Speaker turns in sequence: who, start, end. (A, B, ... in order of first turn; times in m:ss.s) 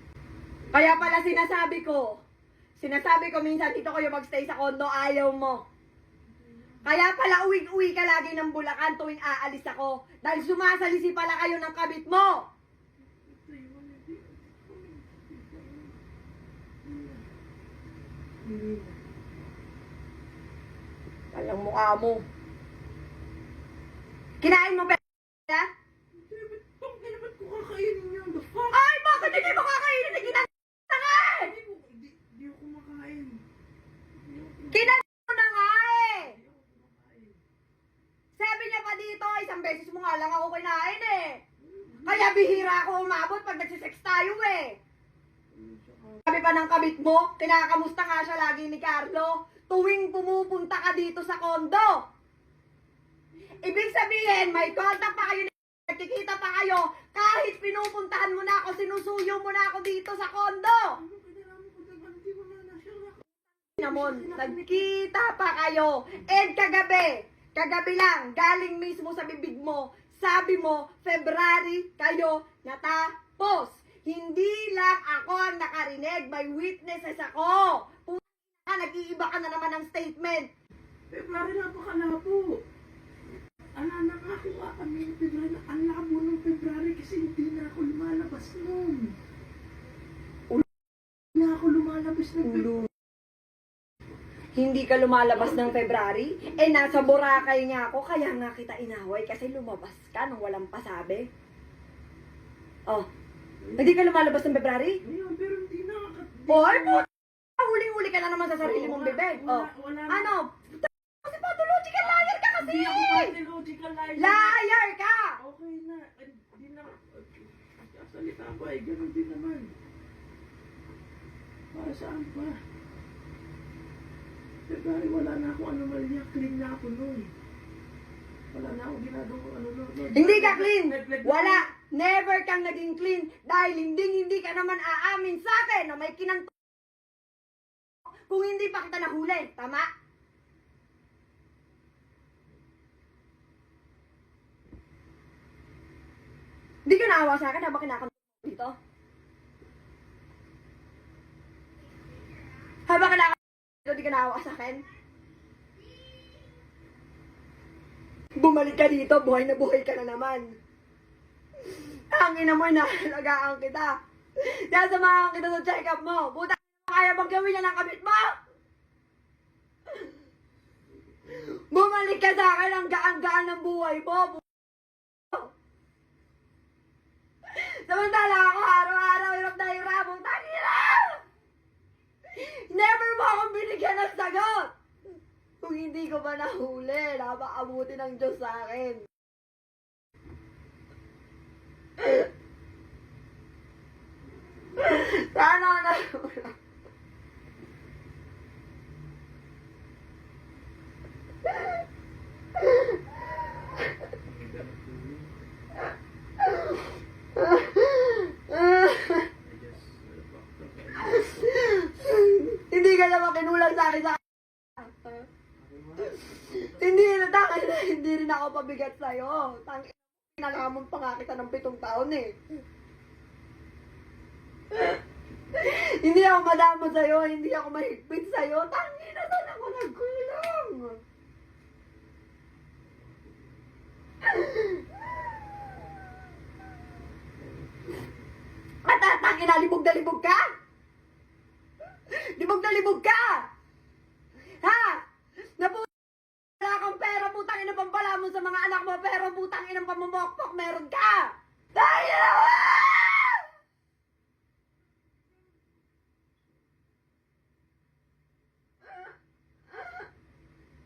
0:00.7-0:02.2 A
0:02.8-0:05.6 A
0:06.3-0:06.8 B
0:06.8-0:12.4 A
0:13.0-0:16.0 B
0:16.8-0:17.2 B
0:18.4-0:18.9 B
0:21.3-0:22.2 A
0:24.4-0:25.7 A
0:26.1-0:29.7 B
0:28.7-0:31.5 A
0:31.3-0:33.4 B
0:34.1-0:35.0 B
0:34.7-0:36.3 A
0:36.2-0:37.4 B
0:38.4-0:41.4 A
0:41.6-0:42.7 B
0:42.0-0:44.7 A
0:45.5-0:46.2 B
0:46.2-0:51.9 A
0:53.6-1:01.0 A
1:01.0-1:04.9 B
1:03.8-1:20.5 A
1:21.1-1:22.6 B
1:23.8-1:29.1 B
1:31.3-1:32.8 B
1:32.4-1:32.9 A
1:34.6-1:41.3 A
1:35.3-1:35.9 B
1:36.5-1:37.5 B
1:43.6-1:44.0 B
1:43.8-1:45.0 A
1:45.0-1:47.0 B
1:46.5-1:47.0 A
1:47.6-1:53.4 A
1:48.6-1:50.3 B
1:52.5-1:54.6 B
1:54.2-1:55.4 A
1:55.4-1:59.7 B
2:01.7-2:02.6 B
2:04.7-2:07.3 B
2:08.5-2:11.6 B
2:10.1-2:16.5 A
2:18.3-2:19.8 A
2:26.8-2:28.7 A
2:32.9-2:34.8 A
2:38.4-2:40.5 A
2:41.8-2:48.3 A
2:51.2-2:54.4 A
2:57.5-3:01.2 A
3:02.3-3:04.7 A
3:05.6-3:09.0 A
3:12.0-3:12.2 A
3:14.8-3:16.5 A
3:22.6-3:22.9 A
3:24.2-3:25.3 B
3:26.4-3:26.8 A
3:27.4-3:29.3 A
3:29.4-3:31.5 B
3:31.1-3:34.2 A
3:34.8-3:35.2 A
3:35.6-3:36.9 B
3:36.2-3:42.3 A
3:44.7-3:45.0 A
3:45.5-3:51.0 A
3:54.3-3:54.8 A
3:58.8-4:00.4 A
4:02.1-4:03.4 A
4:04.6-4:05.0 A
4:05.6-4:05.9 A
4:06.6-4:13.5 A